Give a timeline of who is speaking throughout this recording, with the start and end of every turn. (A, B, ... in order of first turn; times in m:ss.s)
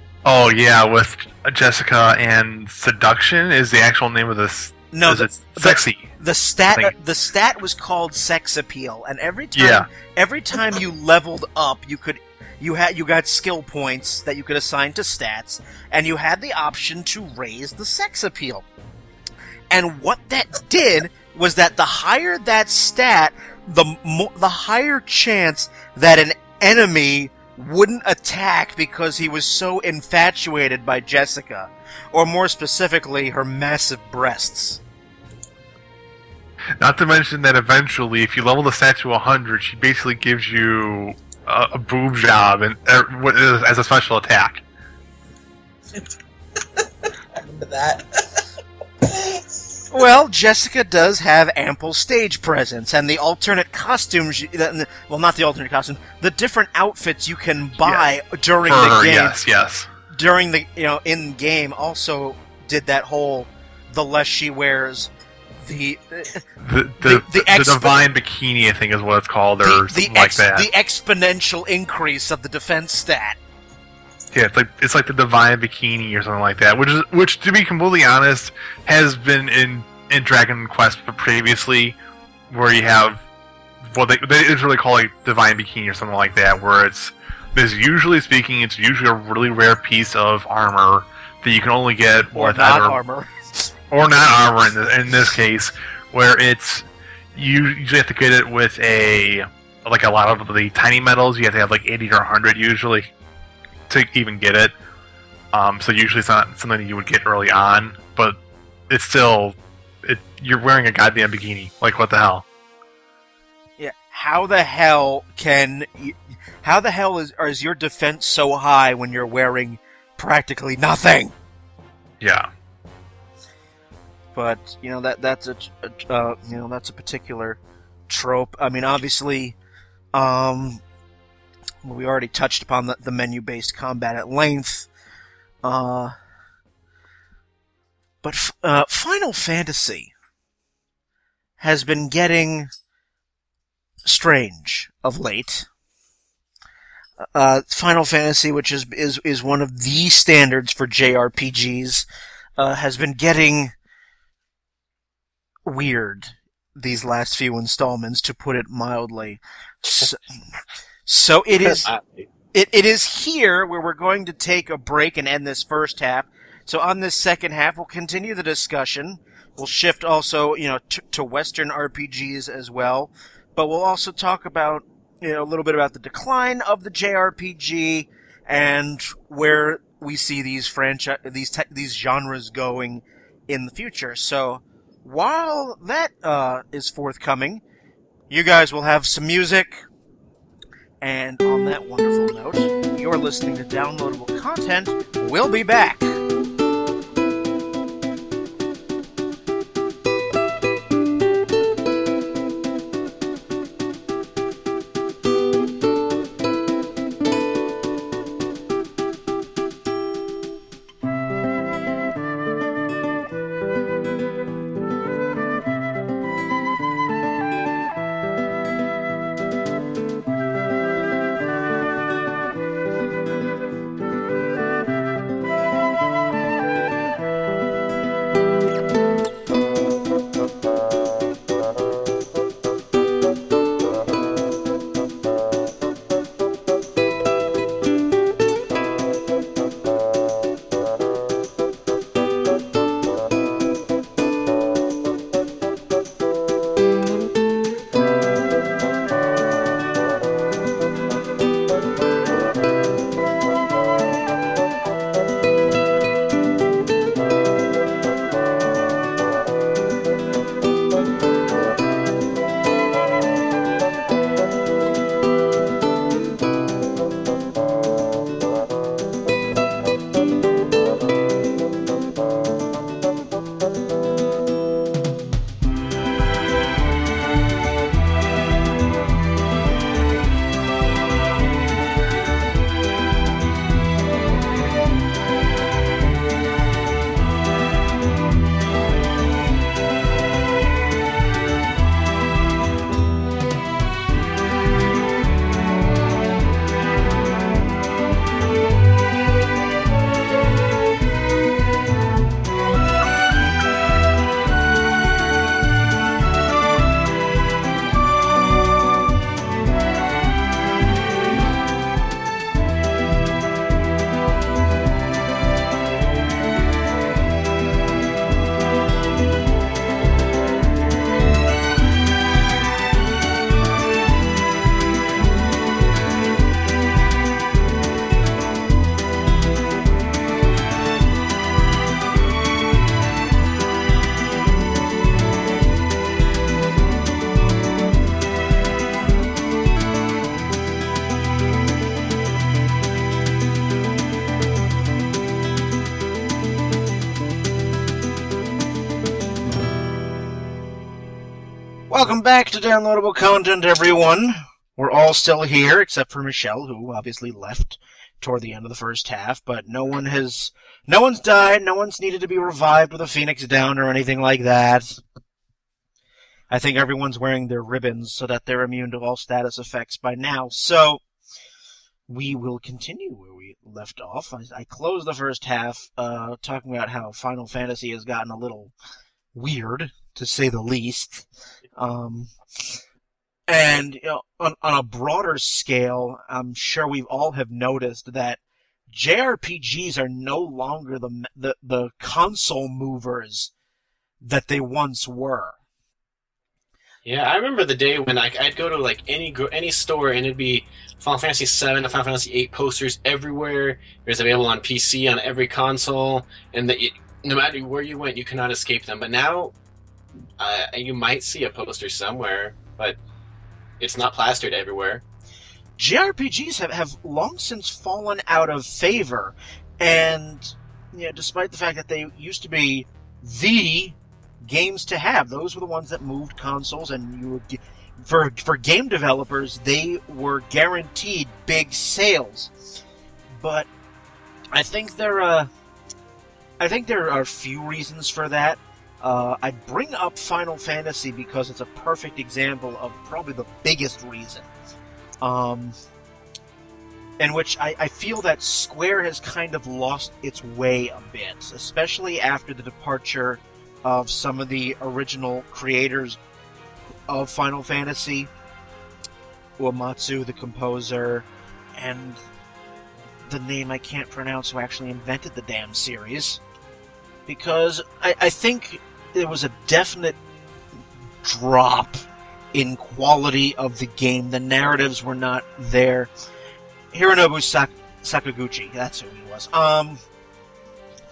0:00.2-0:06.1 A
0:04.9-0:18.7 B
0:09.6-0:09.9 A
0:19.7-0:34.8 B
0:36.8-0:44.6 A
0:45.9-0:48.5 C
0:49.0-0:49.6 C
0:49.9-0:59.4 B
0:58.6-0:59.9 A
1:00.1-1:06.5 B
1:06.6-1:10.7 A
1:07.0-1:08.0 B
1:09.6-1:13.4 B
1:14.3-1:22.0 A
1:22.5-1:23.2 A
1:23.8-1:33.0 A
1:32.3-1:33.4 B
1:33.9-1:43.1 A
1:43.9-1:44.7 A
1:45.5-1:48.4 A
1:48.9-1:52.4 A
1:53.8-2:01.4 B
2:02.2-2:02.5 A
2:04.4-2:09.6 B
2:10.1-2:10.8 B
2:11.8-2:14.9 B
2:15.6-2:16.1 B
2:18.2-2:20.1 B
2:21.6-2:22.7 B
2:24.0-2:25.7 B
2:27.3-2:33.7 B
2:35.7-2:40.2 B
2:41.1-2:41.9 B
2:41.6-2:42.3 D
2:42.5-3:07.6 B
3:08.3-3:09.8 B
3:11.0-3:16.2 B
5:51.9-6:05.0 B
6:06.5-6:11.0 B
6:12.1-6:18.7 B
6:19.3-6:22.3 B
6:23.5-6:33.5 B
6:34.2-6:35.6 B
6:37.0-6:49.5 D
6:50.4-6:53.0 D
6:53.8-6:55.0 D
6:55.8-7:12.5 B
7:13.3-7:13.7 B
7:14.5-7:15.5 B
7:16.6-7:24.5 B
7:25.2-7:25.8 B
7:27.2-7:36.2 B
7:37.1-7:38.3 B
7:39.6-7:42.2 B
7:43.3-7:46.4 B
7:47.3-7:50.2 B
7:51.2-7:56.1 B
7:56.9-8:00.0 B